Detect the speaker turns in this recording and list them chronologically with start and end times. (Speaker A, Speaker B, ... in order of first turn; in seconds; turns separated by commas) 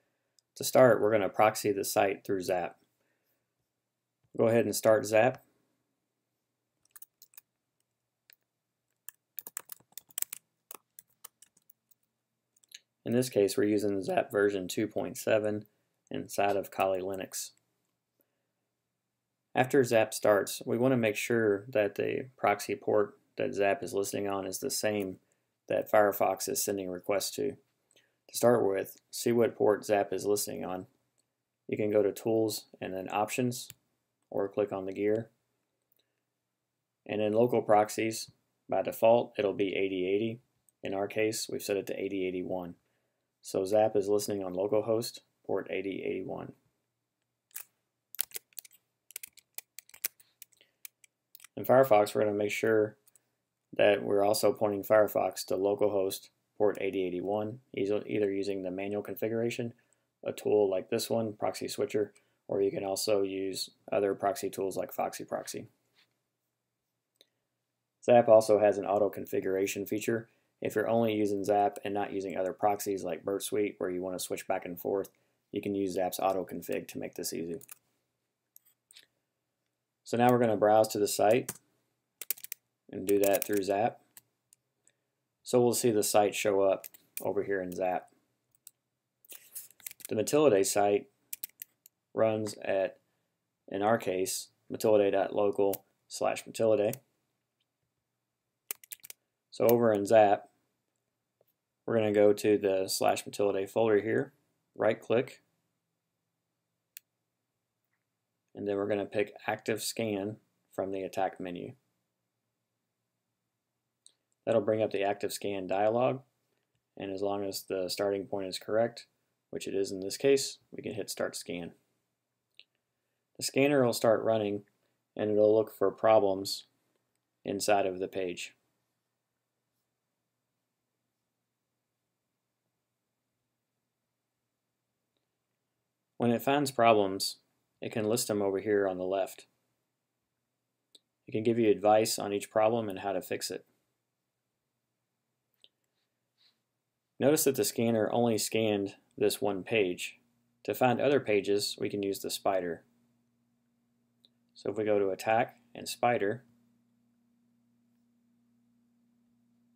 Speaker A: 0.5-2.8, Speaker A: 4.3-5.4, Speaker A: 13.0-17.5, Speaker A: 19.5-27.6, Speaker A: 28.3-30.9, Speaker A: 31.7-33.7, Speaker A: 34.3-35.3, Speaker A: 37.0-42.8, Speaker A: 43.4-46.5, Speaker A: 51.5-53.0, Speaker A: 53.8-65.7, Speaker A: 68.0-77.6, Speaker A: 80.0-81.5, Speaker A: 82.9-84.0, Speaker A: 85.4-88.1, Speaker A: 90.1-91.1, Speaker A: 92.1-93.0, Speaker A: 93.7-97.0, Speaker A: 99.5-100.5, Speaker A: 101.8-105.4, Speaker A: 108.5-111.8, Speaker A: 114.5-116.2, Speaker A: 117.0-121.7, Speaker A: 123.4-126.7, Speaker A: 127.4-128.5, Speaker A: 136.2-139.5, Speaker A: 141.2-143.7, Speaker A: 147.2-152.8, Speaker A: 154.5-156.4